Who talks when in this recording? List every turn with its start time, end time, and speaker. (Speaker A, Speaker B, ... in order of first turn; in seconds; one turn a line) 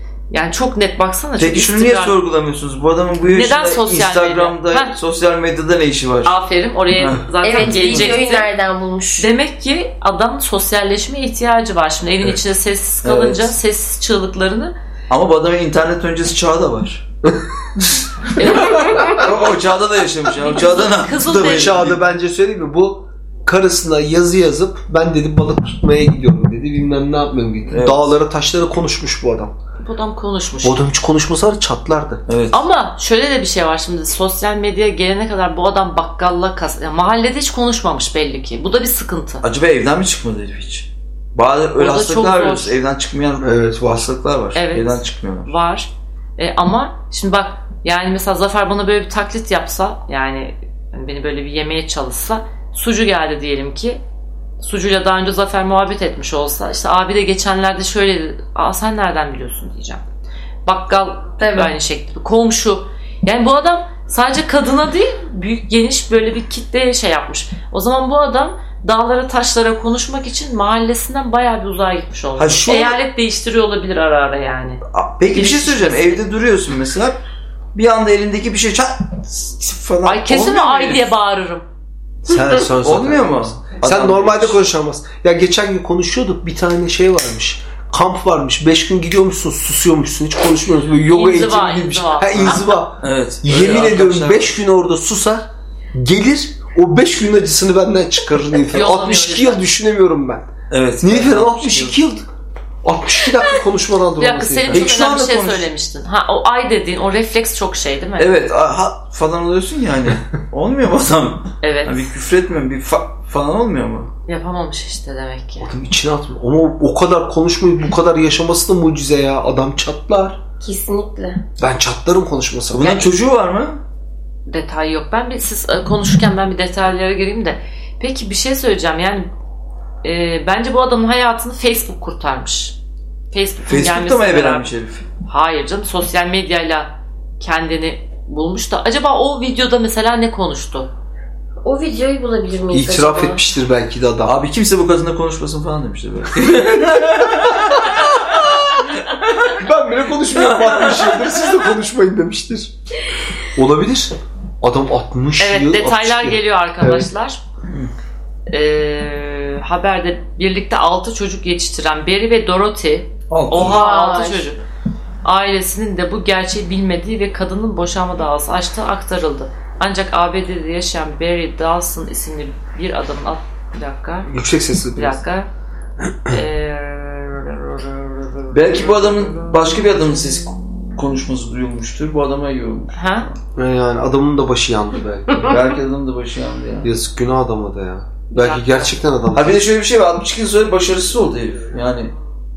Speaker A: 0.3-2.1
Speaker B: 1.4-6.4
Speaker A: 3.3-4.9
Speaker A: 6.2-8.5
Speaker B: 7.0-8.1
Speaker C: 7.4-9.3
Speaker A: 9.2-14.8
Speaker B: 13.0-13.6
Speaker B: 15.1-17.0
Speaker A: 18.4-19.1
Speaker B: 18.4-22.0
Speaker C: 18.4-19.2
Speaker A: 20.4-21.8
Speaker D: 21.3-29.5
Speaker B: 27.7-28.1
Speaker A: 29.8-30.8
Speaker D: 30.6-32.2
Speaker B: 32.3-32.6
Speaker A: 32.5-39.4
Speaker B: 39.4-45.5
Speaker A: 41.8-42.8
Speaker D: 43.4-44.1
Speaker A: 44.5-54.0
Speaker A: 54.6-60.0
Speaker A: 60.6-76.2
Speaker C: 61.4-61.7
Speaker B: 72.4-73.0
Speaker D: 72.4-72.9
Speaker B: 74.9-77.2
Speaker B: 77.7-81.1
Speaker A: 80.0-81.7
Speaker D: 82.2-100.5
Speaker B: 82.6-84.6
Speaker A: 91.1-92.6
Speaker B: 92.3-94.6
Speaker A: 98.7-99.7
Speaker B: 100.7-102.0
Speaker D: 101.0-102.3
Speaker D: 102.8-105.0
Speaker A: 104.2-108.3
Speaker B: 104.7-105.7
Speaker B: 108.2-114.1
Speaker A: 111.6-112.1
Speaker A: 114.3-115.7
Speaker D: 115.6-120.4
Speaker C: 120.6-121.4
Speaker D: 121.6-123.1
Speaker B: 122.7-123.8
Speaker A: 124.5-129.3
Speaker A: 130.0-132.8
Speaker A: 133.3-134.7
Speaker B: 133.7-135.1
Speaker A: 135.2-140.9
Speaker C: 141.6-143.4
Speaker D: 142.7-144.4
Speaker B: 144.2-149.6
Speaker D: 147.9-148.5
Speaker D: 149.5-152.7
Speaker B: 150.3-151.3
Speaker D: 153.5-157.1
Speaker A: 155.4-157.4
Speaker A: 158.5-164.6
Speaker B: 163.3-163.8
Speaker C: 163.5-164.4
Speaker A: 165.2-174.3
Speaker D: 174.2-175.2
Speaker A: 174.9-175.5
Speaker A: 176.3-179.7
Speaker B: 178.5-183.3
Speaker A: 182.9-183.3
Speaker D: 183.6-185.5
Speaker B: 185.3-186.9
Speaker D: 186.8-189.7
Speaker A: 188.3-188.9
Speaker B: 189.3-192.1